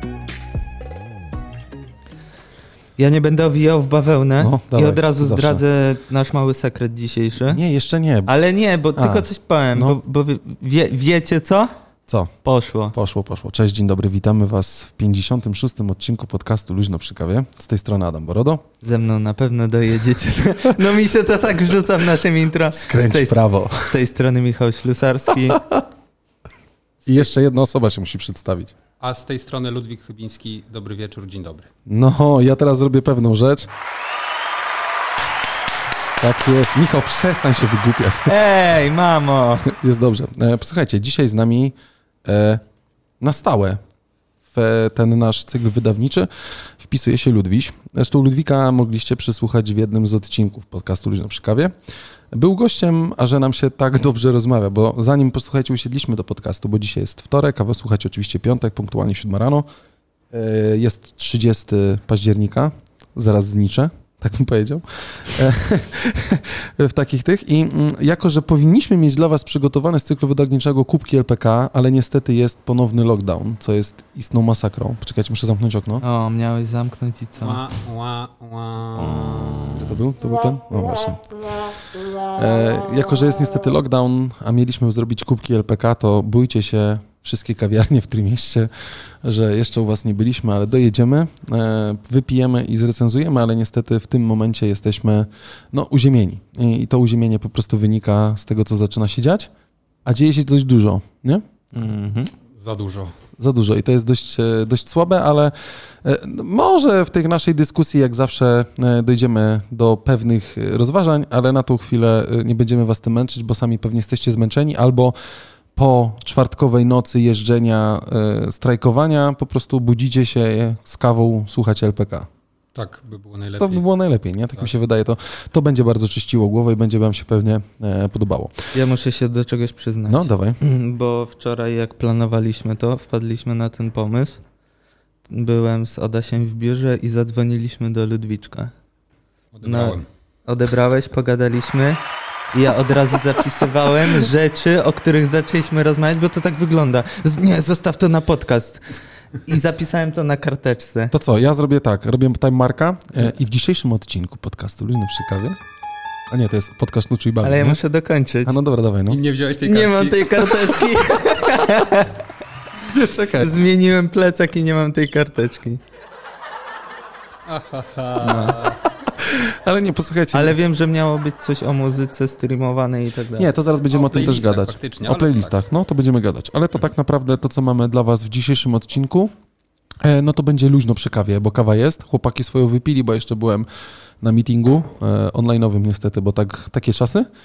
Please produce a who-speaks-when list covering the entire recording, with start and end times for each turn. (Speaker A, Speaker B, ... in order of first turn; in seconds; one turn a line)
Speaker A: 3.0-7.6
Speaker B: 4.4-5.6
Speaker B: 7.5-8.3
Speaker A: 8.2-11.7
Speaker B: 8.9-10.0
Speaker A: 12.4-12.9
Speaker B: 12.9-18.6
Speaker A: 18.8-25.6
Speaker B: 22.7-23.9
Speaker B: 25.5-25.8
Speaker B: 27.1-28.7
Speaker C: 29.0-31.7
Speaker B: 31.9-33.7
Speaker B: 36.2-38.3
Speaker A: 38.2-39.6
Speaker B: 39.6-42.6
Speaker B: 43.2-43.8
Speaker B: 44.5-51.7
Speaker B: 52.3-59.7
Speaker B: 60.3-76.0
Speaker A: 76.0-77.6
Speaker C: 77.4-79.7
Speaker A: 79.0-79.9
Speaker B: 79.7-81.6
Speaker B: 82.3-99.5
Speaker B: 100.0-101.4
Speaker A: 101.7-102.3
Speaker C: 102.5-103.1
Speaker B: 103.4-115.1
Speaker B: 115.7-122.3
Speaker C: 122.7-123.8
Speaker B: 123.6-128.7
Speaker A: 128.7-134.4
Speaker B: 130.1-130.6
Speaker A: 135.3-138.7
Speaker C: 139.5-140.1
Speaker A: 139.6-142.0
Speaker A: 142.5-151.1
Speaker B: 151.1-155.6
Speaker B: 156.3-157.8
Speaker A: 157.4-158.5
Speaker B: 158.4-159.2
Speaker C: 159.1-160.9
Speaker A: 159.6-162.1
Speaker B: 162.8-163.6
Speaker A: 163.4-165.8
Speaker C: 167.4-168.8
Speaker A: 168.2-168.7
Speaker B: 169.2-170.6
Speaker A: 170.3-173.5
Speaker B: 173.4-179.3
Speaker C: 173.9-175.5
Speaker B: 180.0-183.7
Speaker B: 184.2-187.3